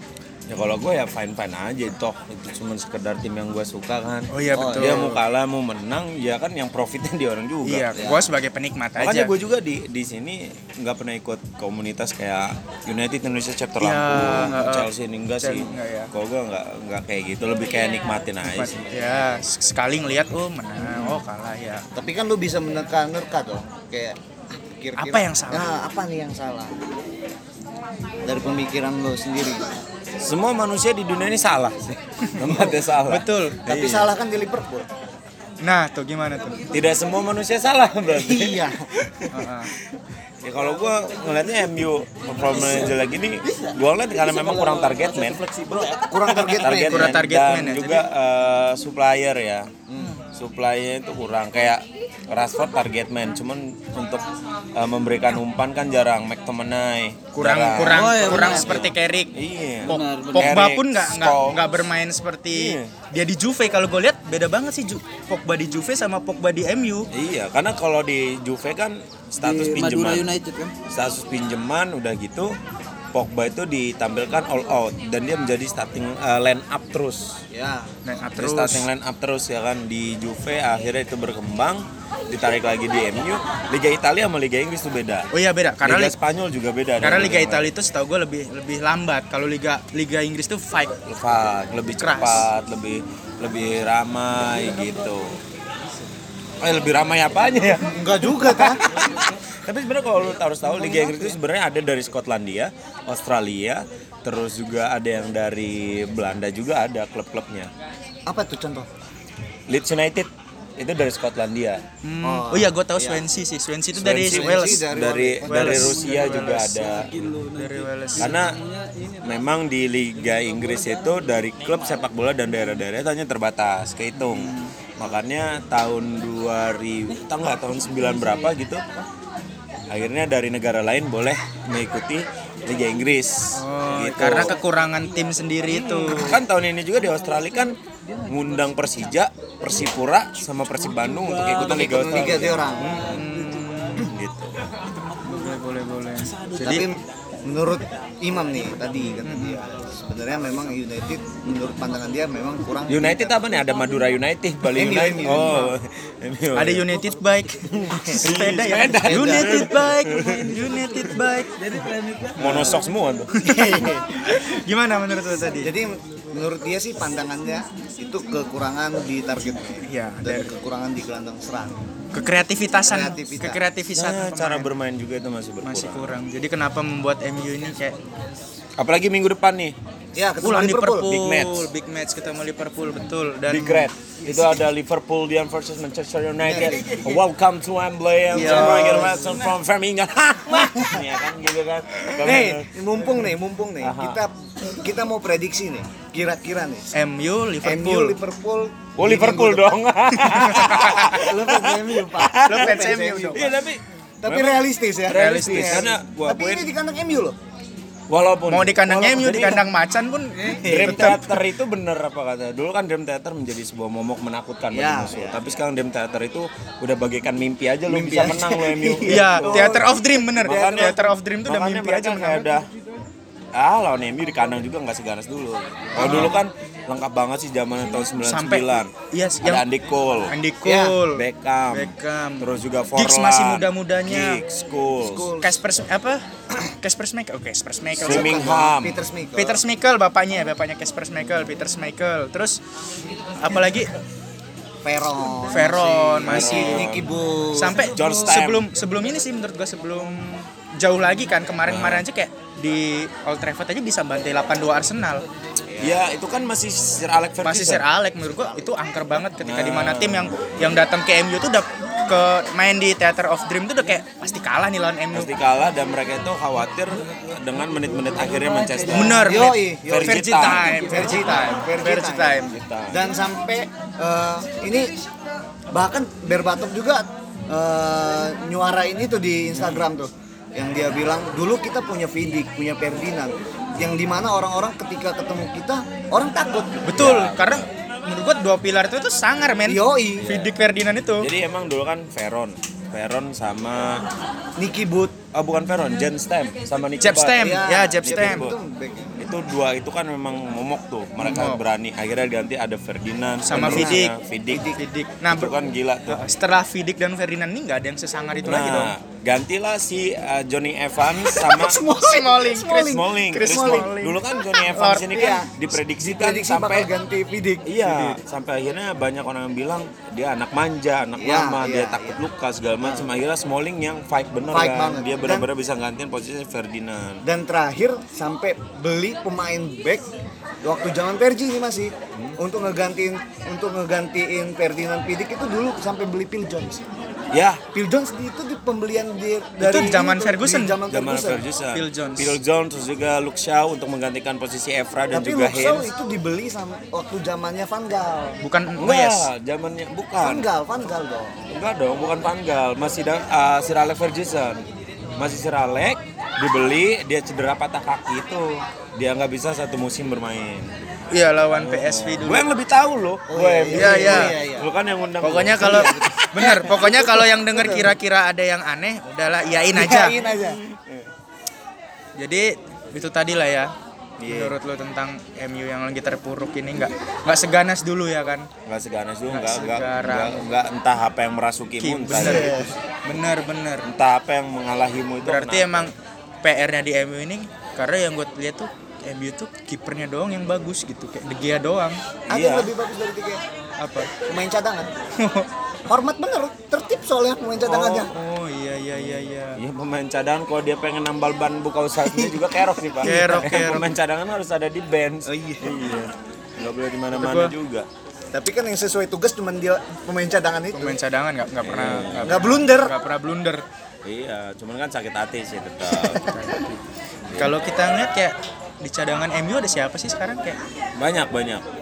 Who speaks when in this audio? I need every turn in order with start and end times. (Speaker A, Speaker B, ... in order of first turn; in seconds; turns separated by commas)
Speaker A: 0.5-8.2, Speaker B: 4.3-5.2, Speaker C: 4.5-5.1, Speaker B: 7.6-9.3, Speaker C: 8.0-8.2, Speaker A: 9.0-18.9, Speaker B: 13.8-14.9, Speaker B: 15.4-16.1, Speaker B: 18.4-21.9, Speaker C: 21.9-26.8, Speaker B: 25.0-25.7, Speaker C: 28.2-29.8, Speaker A: 30.2-34.1, Speaker B: 32.3-33.6, Speaker C: 32.4-32.8, Speaker C: 33.6-34.9, Speaker B: 35.6-36.7, Speaker A: 36.7-49.7, Speaker C: 38.1-38.9, Speaker B: 39.3-39.7, Speaker D: 42.5-42.9, Speaker D: 43.4-46.5, Speaker C: 46.0-47.2, Speaker B: 46.8-48.0, Speaker C: 49.9-50.1, Speaker A: 50.3-54.2, Speaker A: 54.7-61.8, Speaker B: 57.3-59.3, Speaker D: 57.8-58.9, Speaker D: 59.8-60.6, Speaker B: 59.8-67.1, Speaker A: 62.5-62.9, Speaker A: 67.1-70.3, Speaker D: 69.4-70.7, Speaker A: 70.9-72.5, Speaker A: 73.1-77.4, Speaker C: 77.5-77.9, Speaker B: 78.0-78.8, Speaker A: 78.4-85.3, Speaker B: 85.3-86.1, Speaker A: 85.8-87.7, Speaker B: 87.0-91.0, Speaker A: 91.0-95.4, Speaker B: 92.0-92.5, Speaker A: 96.6-107.7, Speaker C: 97.8-98.8, Speaker D: 98.8-99.3, Speaker D: 100.8-101.2, Speaker C: 108.3-108.9, Speaker A: 109.7-111.8, Speaker B: 112.0-114.8, Speaker C: 112.2-113.2, Speaker A: 113.9-117.3, Speaker C: 114.2-116.0, Speaker B: 115.4-116.8, Speaker D: 116.4-122.0, Speaker B: 117.5-118.3, Speaker A: 118.2-118.6, Speaker A: 119.2-128.8, Speaker B: 124.1-124.7, Speaker D: 128.0-128.6, Speaker A: 129.9-134.5, Speaker B: 133.5-136.4, Speaker D: 135.4-136.4, Speaker A: 135.8-137.8, Speaker D: 137.2-139.1, Speaker A: 138.3-143.0, Speaker D: 140.7-144.1, Speaker C: 141.6-142.9, Speaker B: 142.8-144.1, Speaker A: 144.0-144.6, Speaker D: 144.9-146.9, Speaker B: 145.2-146.8, Speaker C: 146.5-153.3, Speaker B: 149.2-149.6, Speaker A: 152.9-156.9, Speaker C: 154.7-155.6, Speaker B: 155.2-155.7, Speaker B: 156.5-161.5, Speaker C: 157.9-158.3, Speaker A: 158.0-160.4, Speaker C: 159.0-159.6, Speaker D: 159.3-163.3, Speaker A: 162.4-163.3, Speaker B: 162.4-162.7, Speaker B: 163.3-165.7, Speaker C: 163.4-164.1, Speaker C: 165.6-171.8, Speaker B: 169.8-170.5, Speaker B: 172.1-174.7, Speaker C: 172.9-173.6, Speaker A: 173.9-176.2, Speaker B: 175.6-177.9, Speaker A: 178.8-179.7, Speaker C: 180.1-181.1, Speaker B: 180.4-183.8, Speaker A: 181.0-181.7, Speaker A: 183.5-192.8, Speaker C: 183.5-184.6, Speaker C: 186.4-187.0, Speaker B: 188.3-189.3, Speaker C: 188.3-189.5, Speaker C: 192.2-196.9, Speaker A: 193.8-194.2, Speaker B: 196.9-198.2, Speaker C: 197.6-199.7, Speaker A: 199.0-206.7, Speaker B: 200.3-201.1, Speaker C: 201.0-203.6, Speaker B: 202.4-203.5, Speaker C: 204.2-207.4, Speaker B: 205.1-205.9, Speaker A: 208.1-209.7, Speaker B: 208.5-211.4, Speaker A: 210.6-222.7, Speaker C: 210.6-211.1, Speaker C: 214.7-215.4, Speaker C: 217.9-220.9, Speaker B: 219.0-222.5, Speaker A: 223.5-228.9, Speaker C: 225.9-226.4, Speaker B: 226.0-226.3, Speaker B: 228.2-229.6, Speaker A: 229.4-230.3, Speaker B: 230.3-234.4, Speaker C: 230.6-231.0, Speaker A: 231.1-235.3, Speaker C: 235.0-235.6, Speaker B: 235.4-238.4, Speaker A: 238.0-239.1, Speaker C: 238.0-239.6, Speaker B: 239.3-242.6, Speaker B: 243.4-243.9, Speaker C: 244.8-247.9, Speaker B: 245.5-246.9, Speaker A: 246.2-248.7, Speaker B: 247.5-255.2, Speaker A: 251.7-252.0, Speaker C: 255.7-256.0, Speaker A: 255.8-257.8, Speaker B: 257.4-265.3, Speaker A: 259.4-260.6, Speaker A: 265.1-269.3, Speaker D: 267.9-269.3, Speaker B: 268.9-272.5, Speaker C: 269.2-274.9, Speaker A: 269.9-271.0, Speaker A: 272.4-273.0, Speaker C: 275.7-287.1, Speaker B: 286.9-291.3, Speaker A: 286.9-287.6, Speaker C: 289.7-290.3, Speaker A: 290.2-290.5, Speaker A: 291.2-294.0, Speaker C: 294.6-295.2, Speaker A: 295.3-298.5, Speaker B: 297.0-298.4, Speaker C: 297.4-299.2, Speaker A: 299.2-304.7, Speaker B: 301.2-301.6, Speaker B: 303.5-304.1, Speaker C: 303.5-304.8, Speaker B: 304.7-305.5, Speaker A: 305.3-306.2, Speaker B: 306.1-308.9, Speaker A: 308.4-311.8, Speaker C: 311.5-313.9, Speaker B: 311.7-315.4, Speaker A: 312.8-316.9, Speaker C: 315.1-317.7, Speaker A: 317.6-327.2, Speaker B: 317.8-318.2, Speaker C: 321.1-322.2, Speaker C: 322.8-323.1, Speaker C: 324.5-325.5, Speaker C: 327.2-330.0, Speaker C: 330.6-336.9, Speaker A: 337.3-337.6, Speaker C: 337.7-341.4, Speaker B: 339.6-340.8, Speaker A: 340.9-345.9, Speaker B: 341.7-342.4, Speaker C: 345.1-348.4, Speaker B: 348.4-349.3, Speaker A: 348.8-350.5, Speaker C: 350.2-351.5, Speaker A: 351.5-354.6, Speaker A: 355.2-360.8, Speaker B: 361.1-362.4, Speaker A: 361.5-366.7, Speaker C: 363.3-364.7, Speaker B: 363.7-364.4, Speaker B: 365.2-370.1, Speaker C: 365.6-368.0, Speaker C: 369.7-370.6, Speaker A: 370.3-371.1, Speaker B: 372.2-373.7, Speaker A: 374.2-374.6, Speaker B: 374.2-378.5, Speaker A: 378.6-382.8, Speaker B: 379.3-380.4, Speaker B: 381.8-383.9, Speaker C: 382.1-382.7, Speaker A: 383.8-385.9, Speaker B: 385.2-392.0, Speaker A: 392.3-392.7, Speaker C: 392.3-393.4, Speaker B: 393.8-394.1, Speaker C: 394.2-394.9, Speaker B: 395.2-395.5, Speaker C: 395.9-398.1, Speaker B: 397.7-399.6, Speaker A: 399.6-407.9, Speaker C: 402.0-402.4, Speaker B: 403.0-403.9, Speaker C: 405.2-405.8, Speaker B: 407.1-407.5, Speaker C: 408.3-411.0, Speaker B: 410.7-413.6, Speaker A: 411.6-412.6, Speaker C: 412.2-412.9, Speaker A: 414.0-416.6, Speaker C: 415.9-416.2, Speaker B: 416.2-416.7, Speaker A: 417.3-417.6, Speaker B: 417.4-420.6, Speaker A: 421.0-421.6